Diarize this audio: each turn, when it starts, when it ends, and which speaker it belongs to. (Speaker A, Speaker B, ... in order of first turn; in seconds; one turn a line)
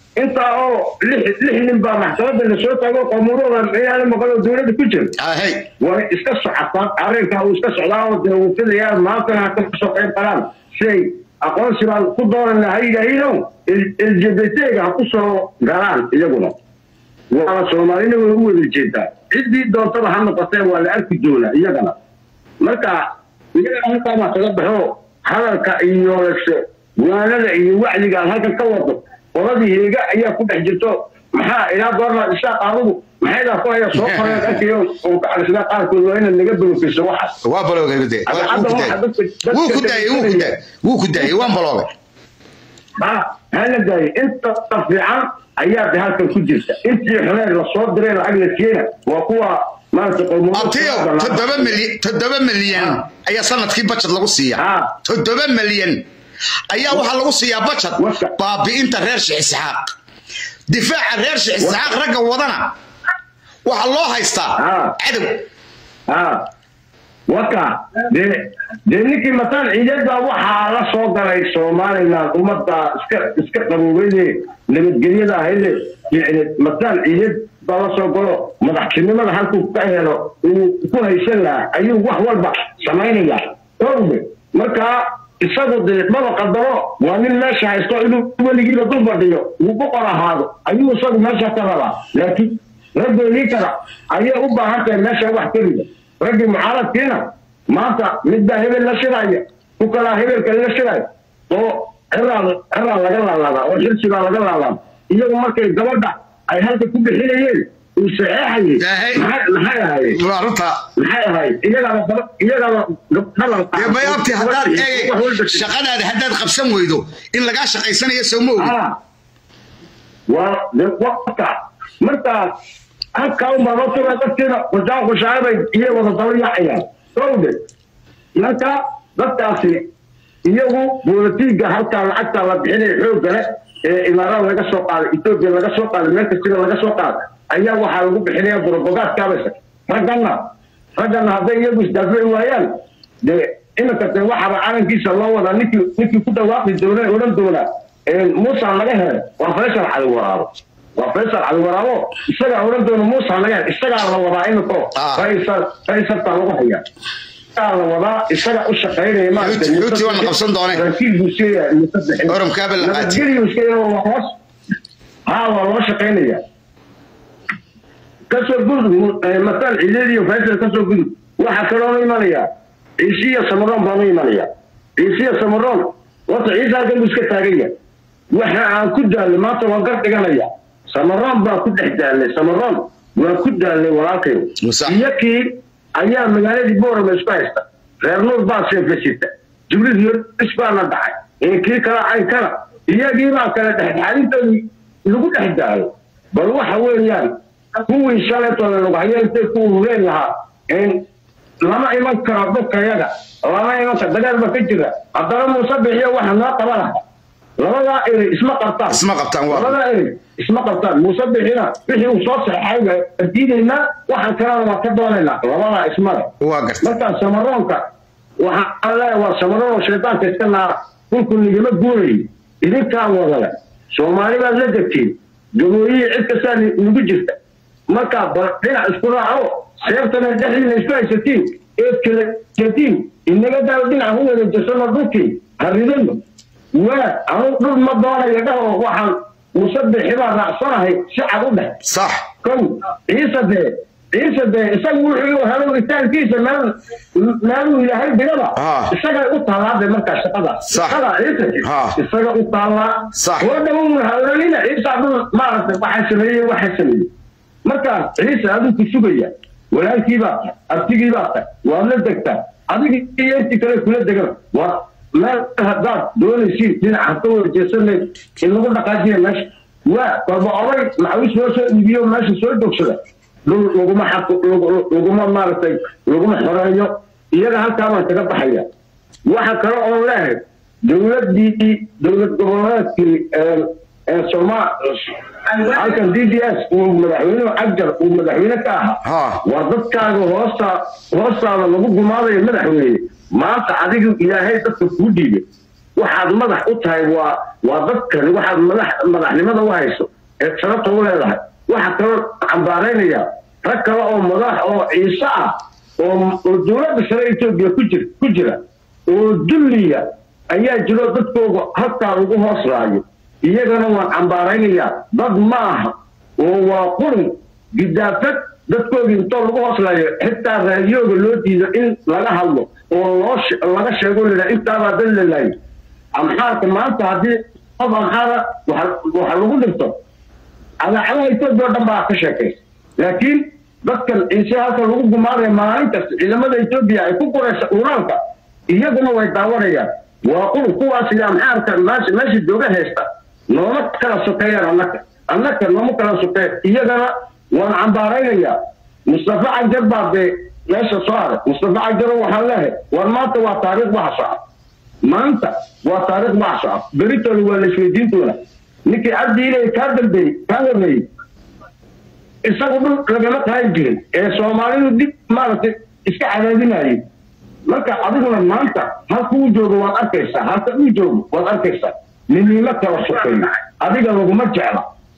Speaker A: 0.1-5.1
Speaker B: 5.2-5.7
Speaker A: 5.8-16.5
Speaker A: 17.3-22.0
Speaker A: 22.6-23.0
Speaker A: 23.5-37.3
Speaker B: 33.9-34.6
Speaker B: 37.4-39.0
Speaker A: 38.2-40.5
Speaker B: 39.5-41.9
Speaker A: 43.0-51.8
Speaker B: 50.5-56.0
Speaker A: 52.7-53.0
Speaker A: 54.5-54.9
Speaker B: 56.7-59.9
Speaker A: 58.0-58.3
Speaker B: 60.7-62.7
Speaker A: 61.6-61.9
Speaker B: 63.6-65.4
Speaker A: 64.6-65.0
Speaker A: 66.1-66.5
Speaker A: 67.3-110.2
Speaker B: 108.8-109.2
Speaker B: 110.1-110.8
Speaker A: 111.0-115.7
Speaker B: 113.7-118.7
Speaker A: 118.6-119.0
Speaker A: 120.3-122.5
Speaker A: 123.2-127.6
Speaker A: 128.3-129.9
Speaker A: 130.4-142.7
Speaker A: 143.2-156.8
Speaker B: 154.9-155.2
Speaker A: 157.5-164.4
Speaker B: 159.3-160.8
Speaker B: 162.3-163.3
Speaker A: 165.2-166.4
Speaker A: 168.3-172.5
Speaker A: 173.0-177.7
Speaker A: 178.3-201.0
Speaker B: 184.6-185.0
Speaker A: 201.6-207.0
Speaker A: 207.6-217.8
Speaker B: 208.9-209.7
Speaker B: 216.4-216.9
Speaker A: 218.4-227.4
Speaker A: 227.9-236.2
Speaker A: 236.7-241.8
Speaker B: 241.8-242.2
Speaker A: 242.4-257.1
Speaker B: 248.6-248.9
Speaker B: 250.7-251.0
Speaker B: 251.6-252.0
Speaker B: 253.1-253.5
Speaker A: 257.6-278.6
Speaker A: 279.2-295.4
Speaker B: 289.0-289.4
Speaker A: 295.9-325.5
Speaker A: 326.1-329.9
Speaker A: 330.8-348.6
Speaker A: 349.1-354.4
Speaker A: 355.0-361.0
Speaker A: 362.4-367.0
Speaker A: 367.6-374.9